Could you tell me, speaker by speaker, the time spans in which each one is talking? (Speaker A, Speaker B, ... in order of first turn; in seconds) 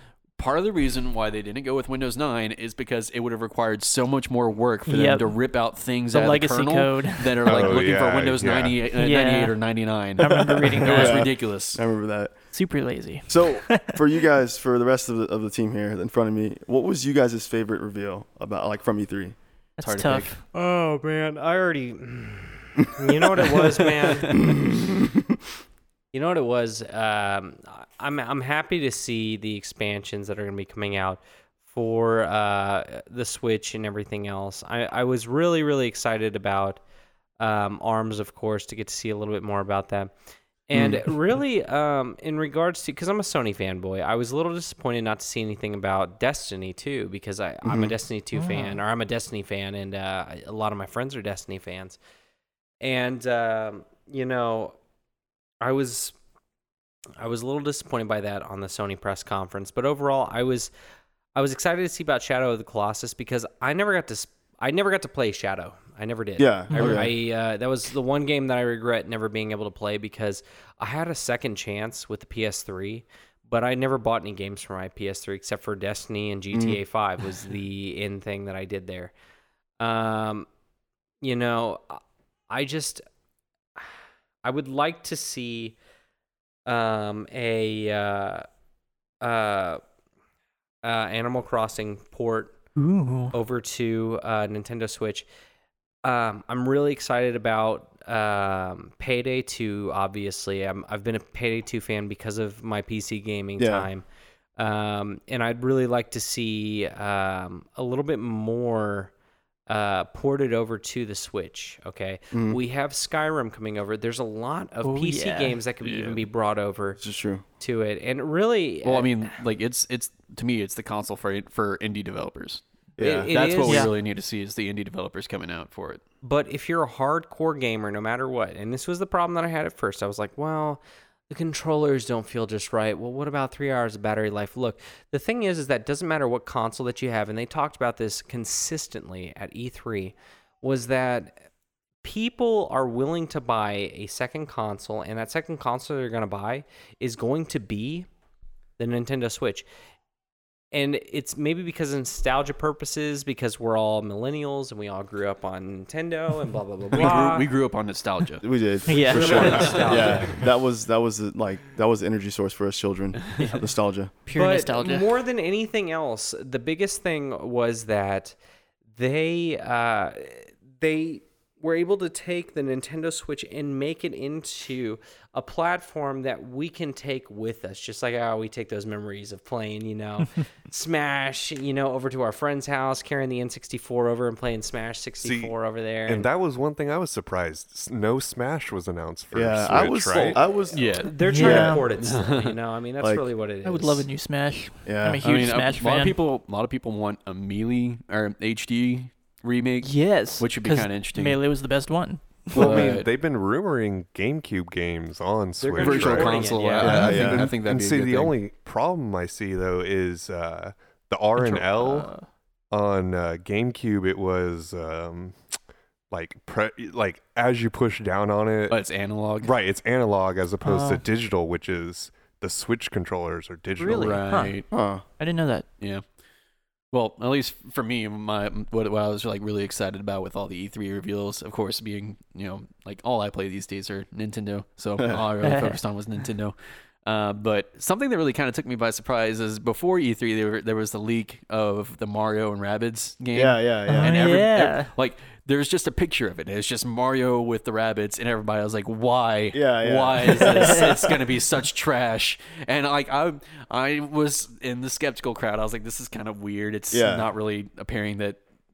Speaker A: 0.4-11.8, 19.8-20.3, 115.8-116.2, 118.8-122.6, 123.3-126.0, 156.9-158.4, 159.1-160.3, 190.7-192.5, 195.2-201.4, 202.5-203.1, 205.7-208.3, 218.7-219.5, 223.8-224.7, 226.9-258.4
Speaker B: 4.9-5.3, 6.1-7.8, 8.9-9.6, 10.2-11.2, 12.5-14.0, 19.8-20.4, 48.3-48.8, 66.7-67.1, 92.7-93.3, 114.8-115.6, 123.7-123.9, 158.9-159.9, 163.4-163.6, 164.2-165.1, 191.2-191.9, 193.6-196.2, 199.8-202.9, 211.4-212.2, 220.6-221.0, 223.8-224.6, 225.2-225.6, 235.4-235.8, 243.9-244.9, 250.6-250.9
Speaker C: 7.4-8.8, 185.2-190.4, 202.5-212.1, 212.7-215.4, 216.1-218.8, 219.4-224.2
Speaker D: 10.5-12.3, 13.3-19.4, 24.3-25.3, 40.7-41.0, 47.6-47.9, 66.4-67.1, 76.5-76.8, 103.6-103.9, 112.3-112.6, 117.0-117.4, 123.0-123.3, 158.4-164.1, 189.3-191.8, 194.8-195.2, 206.8-207.5, 224.7-225.0, 235.0-235.2, 243.3-244.2, 249.5-251.0, 256.9-257.3
Speaker E: 20.5-24.5, 26.1-36.8, 37.4-40.1, 40.7-52.0, 52.8-54.8, 55.6-56.1, 57.2-60.7, 61.4-79.1, 79.8-80.5, 81.2-83.0, 84.4-85.8, 86.7-88.5, 89.2-89.8, 90.8-92.6, 93.3-95.2, 96.0-104.0, 104.6-109.1, 109.7-117.0, 117.6-119.3, 123.0-123.9, 126.2-141.4, 142.0-148.1, 148.8-149.6, 150.7-157.5, 159.0-160.4, 164.3-168.3, 168.9-186.3, 190.1-194.1, 205.6-207.0